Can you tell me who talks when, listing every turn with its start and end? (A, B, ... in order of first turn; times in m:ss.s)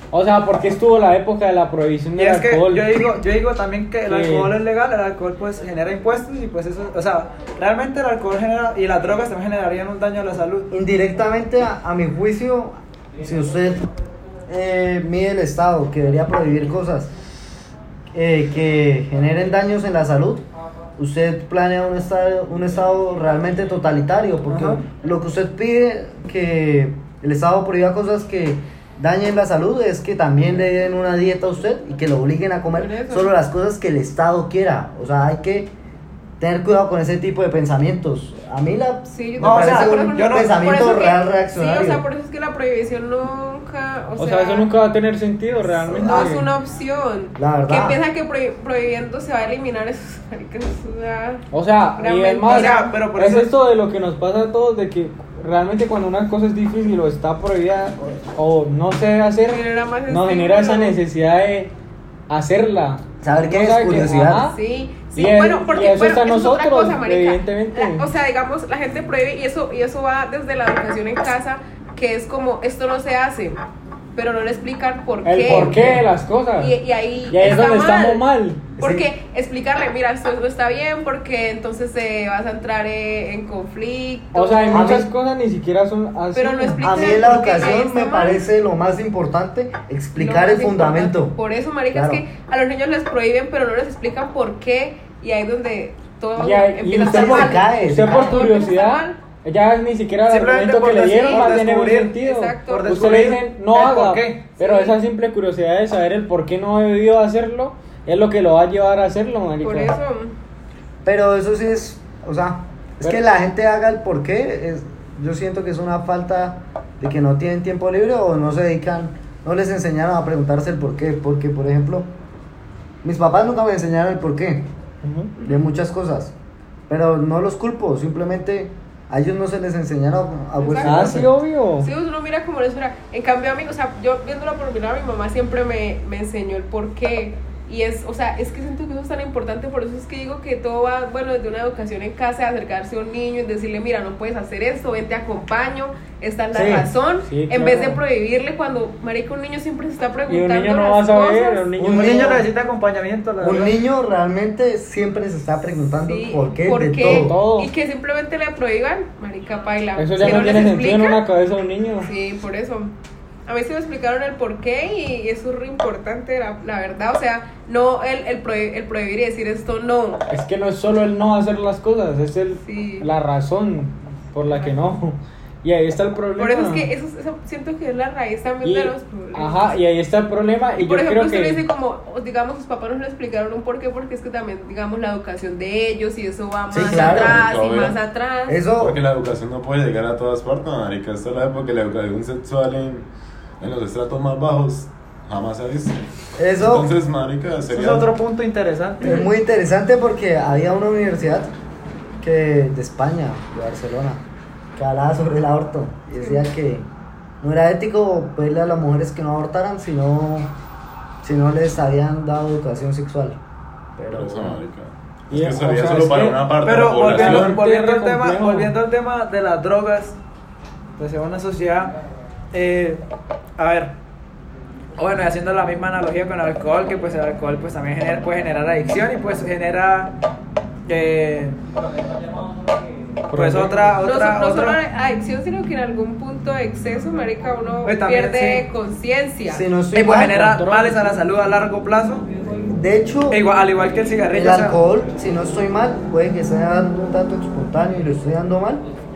0:00.1-0:02.9 A
0:02.2-0:10.7 B
0:04.0-0:04.6 A
0:10.7-0:13.9 C
0:14.5-0:17.1 C
0:18.1-0:20.4 C
0:21.0-0:35.7 C
0:24.5-0:24.8 B
0:32.7-0:33.3 D
0:36.4-0:42.0 C
0:39.1-0:44.7 D
0:39.4-0:40.7 B
0:44.2-0:46.5 A
0:45.8-0:46.3 C
0:46.0-0:51.4 D
0:47.4-0:48.0 C
0:51.5-1:01.7 A
0:52.0-0:52.9 D
0:52.4-0:53.5 B
0:59.5-1:01.0 D
1:02.3-1:04.6 A
1:03.2-1:04.5 C
1:04.5-1:13.6 D
1:05.1-1:08.1 A
1:14.1-1:16.0 D
1:15.2-1:16.8 A
1:15.5-1:16.0 C
1:16.6-1:18.2 D
1:17.3-1:18.7 A
1:18.8-1:19.1 C
1:18.8-1:25.0 D
1:24.4-1:27.4 A
1:24.7-1:25.1 C
1:26.4-1:28.4 D
1:26.8-1:31.4 C
1:30.2-1:39.2 D
1:31.9-1:32.2 C
1:36.4-1:49.9 A
1:37.0-1:38.3 C
1:40.3-1:42.1 B
1:41.1-1:41.5 D
1:42.2-1:42.9 D
1:42.7-1:44.4 B
1:44.6-1:45.0 D
1:49.6-1:50.4 D
1:51.0-2:02.1 C
2:03.0-2:04.7 C
2:05.0-2:05.3 A
2:05.4-2:06.3 C
2:06.9-2:11.3 C
2:10.6-2:11.2 D
2:10.8-2:11.9 A
2:11.8-2:31.7 D
2:26.5-2:26.9 C
2:27.2-2:28.0 A
2:30.3-2:32.4 A
2:31.8-2:32.5 C
2:31.8-2:33.8 B
2:33.4-2:37.4 C
2:36.0-2:41.2 D
2:37.1-2:37.7 A
2:40.0-2:42.1 A
2:42.0-2:42.9 D
2:43.5-2:50.2 D
2:50.3-2:56.9 A
2:52.6-2:53.1 D
2:56.4-2:59.8 D
2:58.6-3:01.6 A
3:00.8-3:08.6 D
3:06.7-3:07.4 C
3:06.9-3:08.0 E
3:08.5-3:09.0 C
3:08.8-3:13.1 E
3:13.6-3:16.0 E
3:16.4-3:17.0 C
3:16.6-3:18.1 E
3:17.7-3:19.2 B
3:19.0-3:21.5 C
3:22.2-3:24.2 C
3:24.8-3:26.9 C
3:26.1-3:26.4 D
3:27.4-3:30.5 C
3:31.2-3:33.4 C
3:34.0-3:34.6 C
3:34.1-3:37.6 E
3:35.3-3:36.5 A
3:36.6-3:40.2 B
3:37.0-3:38.8 A
3:41.0-3:41.9 B
3:42.5-3:43.0 B
3:43.6-3:44.0 B
3:45.0-3:50.2 B
3:50.9-3:51.6 B
3:53.3-3:54.0 A
3:53.3-3:54.8 B
3:54.0-4:00.0 D
3:57.8-3:58.6 B
3:59.5-4:00.4 C
3:59.9-4:02.3 B
4:00.2-4:01.1 A
4:02.7-4:03.4 C
4:03.3-4:04.8 B
4:04.3-4:08.8 C